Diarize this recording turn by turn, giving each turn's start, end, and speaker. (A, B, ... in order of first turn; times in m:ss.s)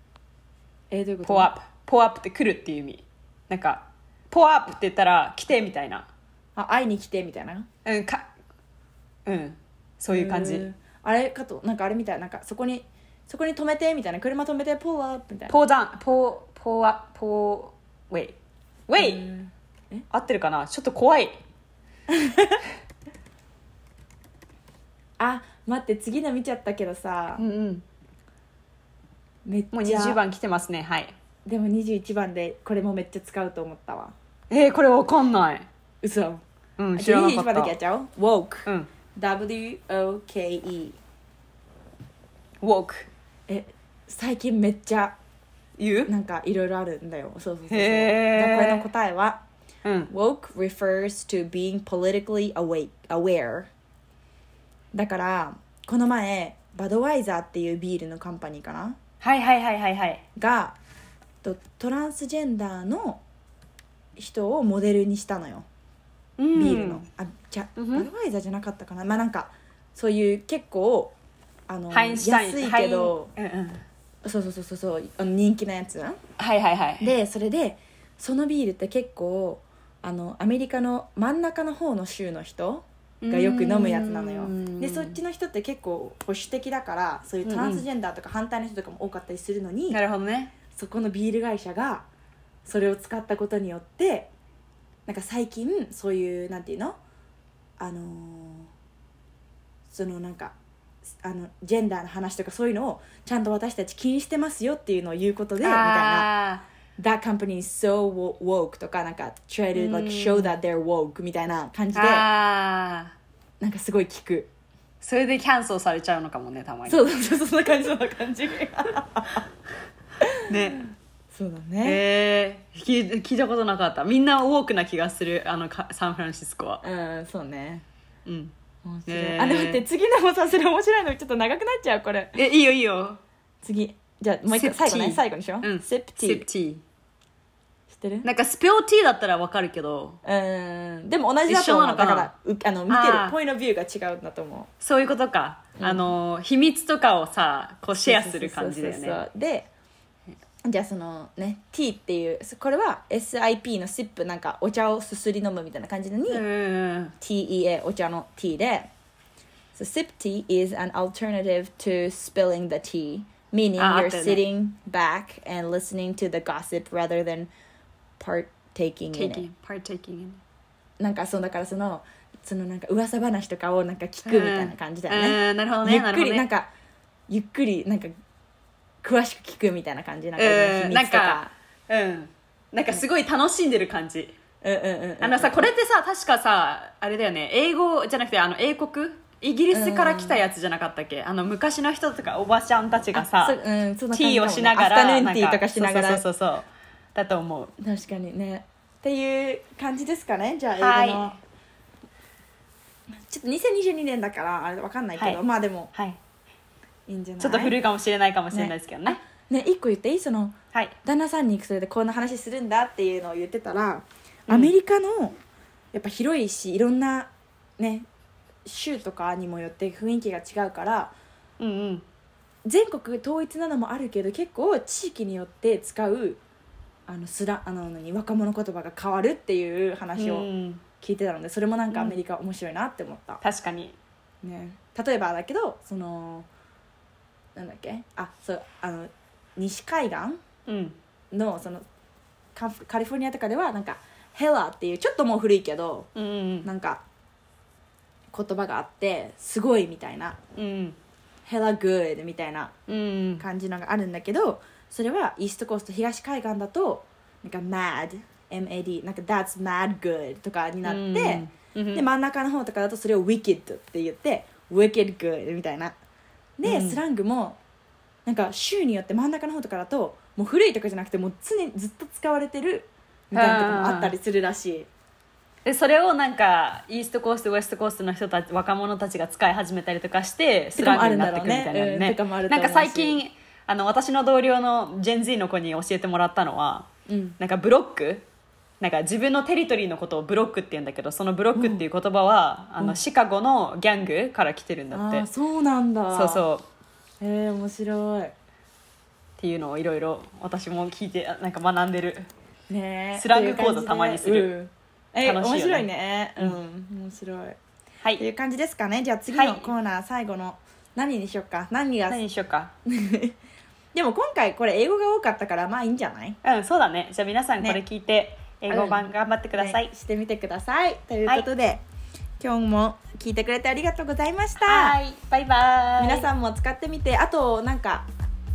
0:00.9-0:01.5 A
0:01.2-0:06.1 B
0:06.6-0:07.6 A
0:07.8-0:08.3 B
0:09.2-0:10.7 B
0:10.1-0:15.6 A
0:15.5-0:19.2 B
0:19.0-0:20.0 A
0:20.1-0:21.4 B
0:22.1-0:22.6 A
0:25.2-0:27.4 A
0:27.4-0:27.8 B
0:29.4-0:30.2 A
0:29.7-0:31.1 B
0:31.4-0:34.1 A
0:34.5-0:35.7 B
0:36.0-0:36.4 A
0:36.8-0:37.7 B
0:37.0-0:41.0 A
0:42.6-0:43.1 B
0:43.5-0:45.1 A
0:45.8-0:46.1 B
0:46.1-0:49.4 A
0:47.7-0:48.9 B
0:49.8-0:50.1 B
0:50.1-0:53.7 A
0:54.9-0:59.0 A
0:59.2-1:00.2 B
1:00.4-1:00.8 A
1:01.4-1:03.2 A
1:04.2-1:05.6 A
1:06.4-1:07.0 B
1:06.5-1:11.1 A
1:07.8-1:08.1 B
1:11.7-1:13.3 A
1:11.9-1:13.8 B
1:14.2-1:16.2 A
1:16.4-1:17.1 B
1:17.0-1:30.0 A
1:23.2-1:25.2 B
1:27.4-1:27.8 B
1:29.9-1:30.5 B
1:30.7-1:32.0 A
1:32.6-1:34.3 A
1:35.1-1:37.0 A
1:37.8-1:38.7 A
1:39.9-1:40.5 A
1:41.2-1:46.3 A
1:45.6-1:46.6 B
1:47.0-1:52.2 A
1:49.7-1:50.6 B
1:51.9-1:53.1 B
1:53.6-1:54.5 A
1:55.0-1:57.1 B
1:56.9-1:59.4 A
2:00.2-2:00.5 A
2:00.5-2:00.9 B
2:01.3-2:02.0 A
2:01.8-2:06.8 B
2:06.8-2:07.8 A
2:08.2-2:08.5 B
2:08.8-2:12.4 A
2:09.1-2:09.8 B
2:12.4-2:13.2 B
2:13.6-2:16.4 A
2:14.5-2:16.8 B
2:17.9-2:18.3 A
2:18.2-2:20.2 B
2:20.2-2:24.7 A
2:21.5-2:22.3 B
2:22.9-2:23.4 B
2:24.8-2:29.2 B
2:25.8-2:26.1 A
2:27.9-2:29.7 A
2:30.6-2:36.4 A
2:36.3-2:37.1 B
2:37.2-2:38.9 A
2:39.7-2:47.5 A
2:43.8-2:44.4 B
2:48.2-2:49.4 A
2:49.1-2:50.4 B
2:51.0-2:56.7 A
2:54.2-2:56.5 B
2:57.3-2:58.1 A
2:59.0-3:01.5 A
3:00.4-3:04.4 B
3:04.6-3:05.6 A
3:05.2-3:13.6 B
3:09.7-3:10.4 A
3:13.2-3:16.2 A
3:14.1-3:17.7 B
3:17.8-3:21.4 A
3:20.8-3:21.3 B
3:23.2-3:25.9 A
3:25.9-3:26.2 B
3:27.1-3:27.8 A
3:27.4-3:29.2 B
3:28.5-3:35.4 A
3:34.5-3:34.7 B
3:35.9-3:38.0 A
3:38.6-3:41.1 A
3:41.6-3:42.0 B
3:42.6-3:46.4 A
3:47.1-3:50.5 A
3:50.2-3:50.8 B
3:51.0-3:53.4 A
3:51.9-3:52.2 B
3:53.4-3:54.0 B
3:54.4-3:56.5 A
3:57.6-4:00.4 A
4:00.6-4:01.0 B
4:01.3-4:01.8 A
4:02.6-4:06.1 A
4:06.2-4:06.7 B
4:06.6-4:07.0 A
4:08.3-4:10.4 A
4:10.6-4:11.0 B
4:11.4-4:12.7 A
4:12.9-4:13.4 B
4:13.4-4:25.9 A
4:20.8-4:22.0 B
4:26.6-4:27.6 A
4:26.6-4:27.0 B
4:28.2-4:34.9 A
4:33.3-4:34.1 B
4:35.6-4:48.2 B
4:40.8-4:43.2 A
4:47.1-4:47.4 A
4:48.8-4:55.3 B
4:51.5-4:51.8 A
4:54.9-4:56.4 A
4:56.1-4:56.7 B
4:57.2-4:58.3 A
4:59.4-5:02.3 B
5:02.7-5:07.6 A
5:03.1-5:04.5 B
5:05.2-5:05.9 B
5:08.2-5:12.2 A
5:09.3-5:09.7 B
5:12.1-5:12.7 B
5:12.8-5:13.3 A
5:13.9-5:16.4 A
5:16.4-5:19.9 B
5:18.7-5:19.0 A
5:19.6-5:21.8 A
5:22.4-5:25.0 A
5:24.6-5:26.3 B
5:26.0-5:28.0 A